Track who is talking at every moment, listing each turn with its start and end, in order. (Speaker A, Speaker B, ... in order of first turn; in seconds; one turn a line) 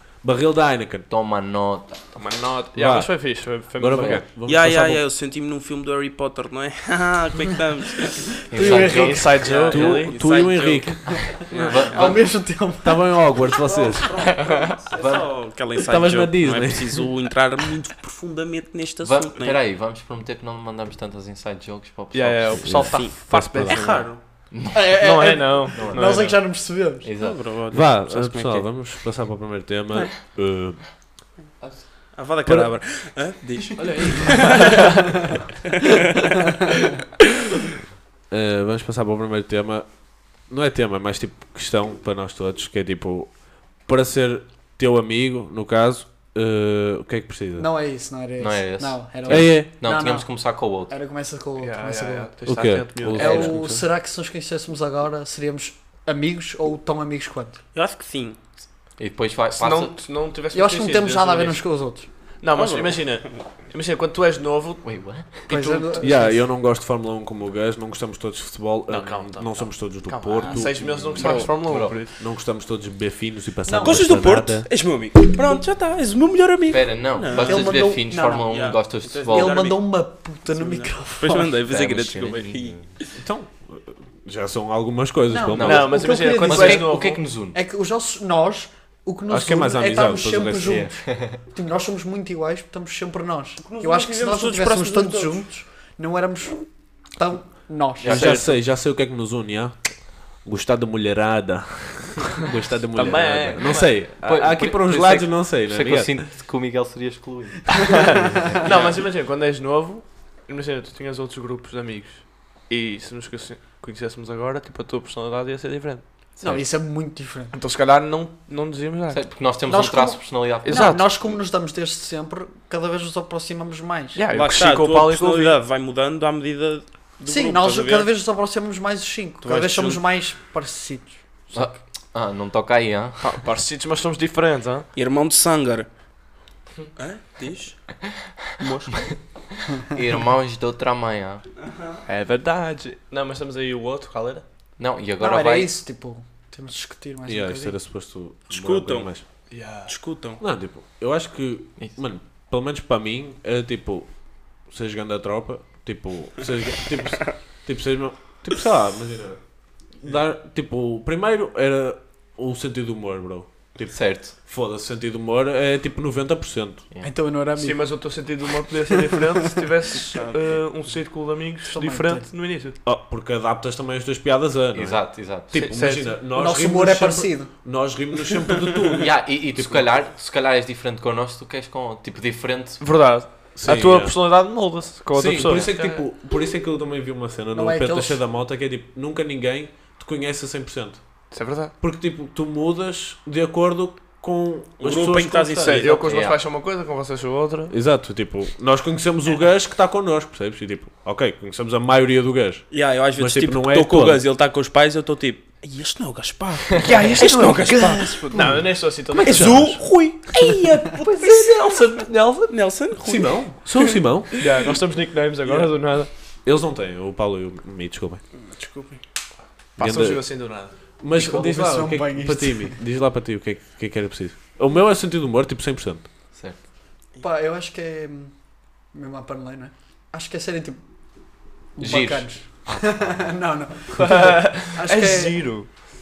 Speaker A: 0.2-1.1
Speaker B: 1.1-2.0
Speaker C: 2.1-4.2
Speaker A: 2.7-5.0
Speaker D: 4.4-8.4
Speaker B: 8.5-9.7
Speaker E: 8.5-9.5
Speaker C: 8.6-10.2
Speaker D: 9.4-12.2
Speaker A: 9.7-11.4
Speaker E: 11.1-13.2
Speaker C: 11.5-11.9
Speaker B: 11.5-12.2
Speaker A: 12.8-14.2
Speaker D: 13.6-19.6
Speaker E: 13.8-14.2
Speaker B: 14.2-15.3
Speaker A: 15.9-17.1
Speaker B: 19.0-22.9
Speaker C: 22.1-24.1
Speaker A: 22.6-24.0
Speaker D: 22.7-24.2
Speaker B: 24.5-24.8
Speaker E: 24.7-27.1
Speaker C: 25.0-26.4
Speaker B: 25.7-26.4
Speaker B: 27.0-27.4
Speaker D: 27.2-28.9
Speaker A: 27.7-30.8
Speaker D: 32.1-35.0
Speaker A: 32.4-32.7
Speaker A: 33.8-34.8
Speaker D: 35.8-36.3
Speaker A: 38.3-39.9
Speaker A: 40.5-43.3
Speaker A: 43.9-47.7
Speaker E: 47.5-50.3
Speaker B: 48.4-50.9
Speaker A: 49.2-49.7
Speaker E: 50.9-52.3
Speaker C: 51.6-53.5
Speaker A: 52.5-53.8
Speaker E: 53.0-57.6
Speaker B: 53.1-53.5
Speaker D: 57.7-58.4
Speaker B: 59.0-60.0
Speaker C: 59.5-61.6
Speaker E: 60.5-62.1
Speaker C: 62.4-64.8
Speaker D: 62.5-63.5
Speaker B: 64.8-65.5
Speaker C: 65.5-66.3
Speaker E: 65.5-66.4
Speaker A: 66.0-71.5
Speaker C: 68.9-72.2
Speaker D: 70.4-71.5
Speaker B: 71.2-72.0
Speaker A: 72.2-74.7
Speaker E: 73.6-74.2
Speaker D: 73.8-77.9
Speaker B: 76.7-79.6
Speaker E: 77.3-78.5
Speaker D: 78.4-79.8
Speaker E: 79.2-81.6
Speaker D: 80.5-83.1
Speaker B: 81.7-82.9
Speaker A: 83.2-86.0
Speaker E: 85.3-87.0
Speaker B: 85.5-87.6
Speaker C: 85.6-87.2
Speaker E: 87.5-96.6
Speaker A: 89.3-90.9
Speaker B: 90.6-91.4
Speaker D: 93.6-95.4
Speaker E: 97.1-98.4
Speaker B: 98.0-98.4
Speaker A: 98.0-99.8
Speaker C: 98.1-98.4
Speaker A: 100.4-106.2
Speaker C: 102.9-104.0
Speaker B: 103.7-108.9
Speaker C: 107.9-116.0
Speaker E: 116.4-117.5
Speaker C: 117.5-119.2
Speaker B: 119.1-121.0
Speaker E: 119.7-124.2
Speaker C: 120.6-121.1
Speaker C: 124.1-125.5
Speaker D: 124.3-128.1
Speaker E: 127.3-131.7
Speaker D: 129.4-130.0
Speaker B: 131.5-133.4
Speaker C: 133.2-134.9
Speaker D: 134.9-135.9
Speaker D: 137.0-137.9
Speaker D: 138.6-139.1
Speaker B: 139.8-141.4
Speaker D: 141.7-142.0
Speaker C: 142.1-144.4
Speaker B: 144.8-145.7
Speaker E: 145.2-147.8
Speaker A: 147.2-149.2
Speaker D: 148.5-149.1
Speaker C: 149.5-149.9
Speaker D: 149.9-150.4
Speaker A: 150.4-154.1
Speaker A: 154.7-159.4
Speaker A: 160.0-166.8
Speaker B: 163.9-164.3
Speaker E: 167.0-168.1
Speaker C: 167.6-172.8
Speaker E: 168.7-170.0
Speaker E: 171.6-172.3
Speaker A: 172.8-179.9
Speaker B: 174.7-175.5
Speaker C: 175.5-176.2
Speaker E: 176.3-177.5
Speaker B: 178.9-182.8
Speaker C: 182.8-186.0
Speaker A: 183.6-184.2
Speaker A: 185.1-191.0
Speaker B: 185.4-185.7
Speaker E: 187.5-188.2
Speaker C: 191.3-191.7
Speaker A: 191.8-195.8
Speaker D: 194.8-196.2
Speaker C: 195.6-197.7
Speaker B: 196.1-196.4
Speaker A: 197.7-204.2
Speaker D: 202.7-208.3
Speaker C: 206.7-209.8
Speaker E: 208.3-208.6
Speaker D: 209.2-214.7
Speaker A: 209.3-209.6
Speaker C: 211.1-212.5
Speaker A: 213.0-214.3
Speaker C: 214.4-216.1
Speaker A: 216.4-218.2
Speaker C: 218.5-219.0
Speaker C: 219.8-220.7
Speaker A: 219.8-220.2
Speaker A: 221.0-226.1
Speaker E: 221.1-222.8
Speaker E: 227.2-228.3
Speaker E: 228.9-230.8
Speaker E: 231.8-235.6
Speaker B: 231.8-233.2
Speaker C: 233.9-235.7